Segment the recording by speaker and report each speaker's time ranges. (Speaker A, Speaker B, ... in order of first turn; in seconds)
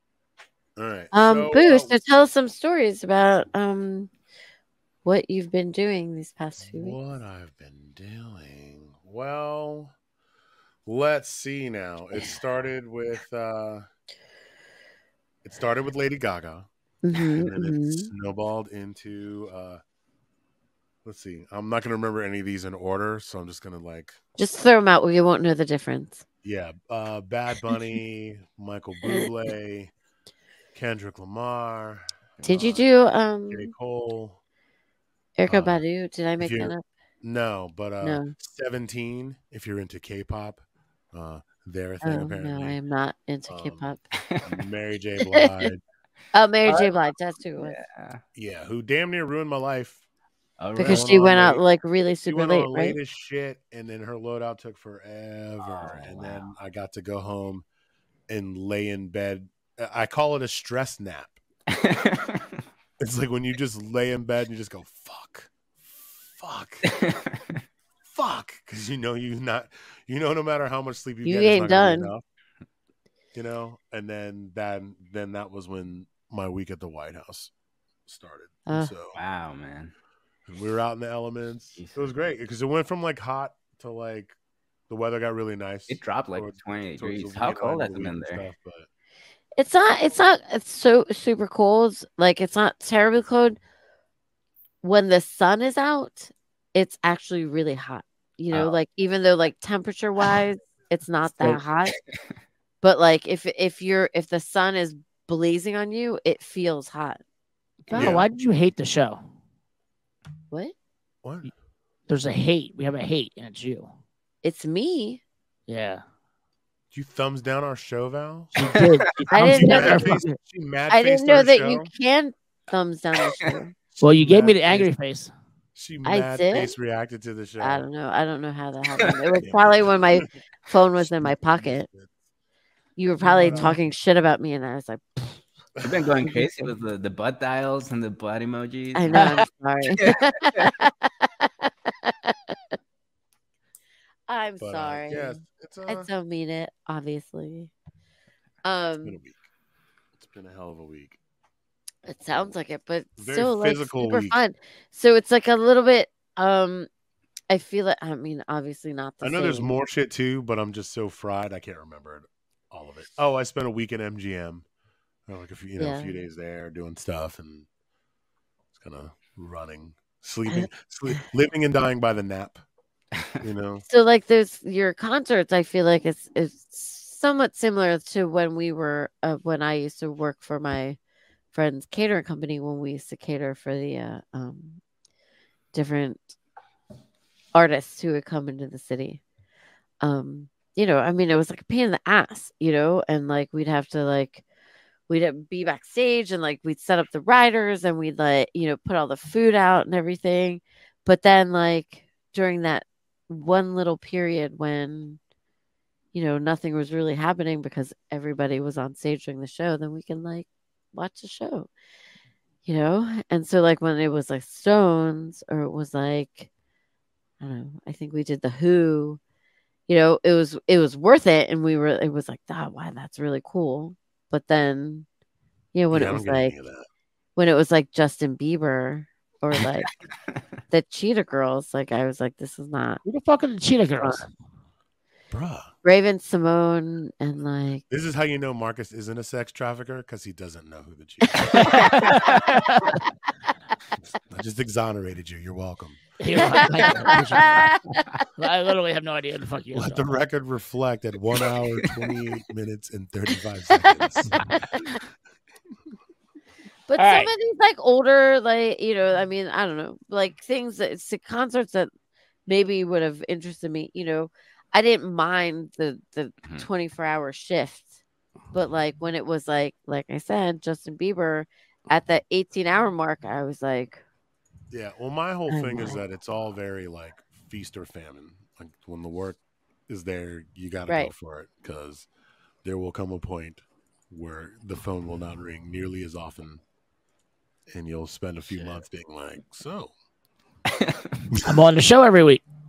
Speaker A: 0.8-1.9, 6.6-9.9, 10.8-13.8, 15.4-19.8, 21.1-24.2, 26.4-29.9, 30.7-32.9, 33.5-34.4, 35.5-35.8, 36.4-42.8, 43.5-43.9, 44.4-45.8, 48.4-50.0, 50.8-51.6, 52.3-57.6, 58.3-61.4, 63.0-66.9, 68.0-72.2, 73.3-77.5, 78.1-79.2, 80.5-84.3, 84.9-88.9, 107.9-108.3, 111.2-111.5, 116.9-121.9, 123.9-124.9, 125.7-127.9, 129.3-130.3, 131.0-132.1, 133.2-133.8, 135.8-136.1, 144.6-146.1, 149.0-149.4, 150.2-151.2, 153.2-154.4, 159.2-164.7, 165.3-167.7, 168.7-172.6, 173.4-173.8, 225.9-226.9, 235.3-235.7, 237.9-242.3, 244.2-246.1, 246.8-247.2, 249.7-254.6, 274.7-282.1, 282.6-286.6, 287.7-289.9
Speaker B: 1.1-4.1, 5.0-7.0, 17.0-18.1, 24.4-26.2, 32.4-33.7, 35.4-36.8, 38.0-38.3, 42.0-44.0, 45.4-45.6, 46.3-47.8, 50.8-53.0, 71.2-72.1, 78.7-78.9, 89.6-93.6, 94.8-101.9, 102.8-107.2, 114.4-115.2, 119.3-120.1, 120.9-123.7, 126.0-126.7, 127.6-131.9, 133.0-135.4, 138.9-142.3, 144.3-147.7, 148.6-149.2, 152.1-156.9, 157.5-159.7, 165.8-166.2, 173.9-181.0, 181.5-184.8, 185.7-186.3, 187.5-189.2, 190.0-194.4, 195.1-205.2, 206.1-211.7, 212.6-216.5, 217.4-219.2, 219.9-225.1, 225.7-226.6, 227.3-229.9, 230.7-233.0, 235.8-237.8, 247.0-248.0, 256.9-261.9, 262.5-268.0, 268.5-274.0, 275.5-276.0
Speaker C: 46.6-46.9, 47.6-48.2, 50.6-51.3, 55.6-56.4, 61.7-62.4, 79.1-79.9, 85.9-88.5, 135.8-139.4, 140.0-140.7
Speaker D: 107.9-109.2, 112.1-113.9, 115.7-116.0, 118.5-120.3, 124.0-125.3, 233.1-234.3, 241.5-243.0, 246.2-247.8, 248.3-250.1, 257.0-257.3, 291.4-292.4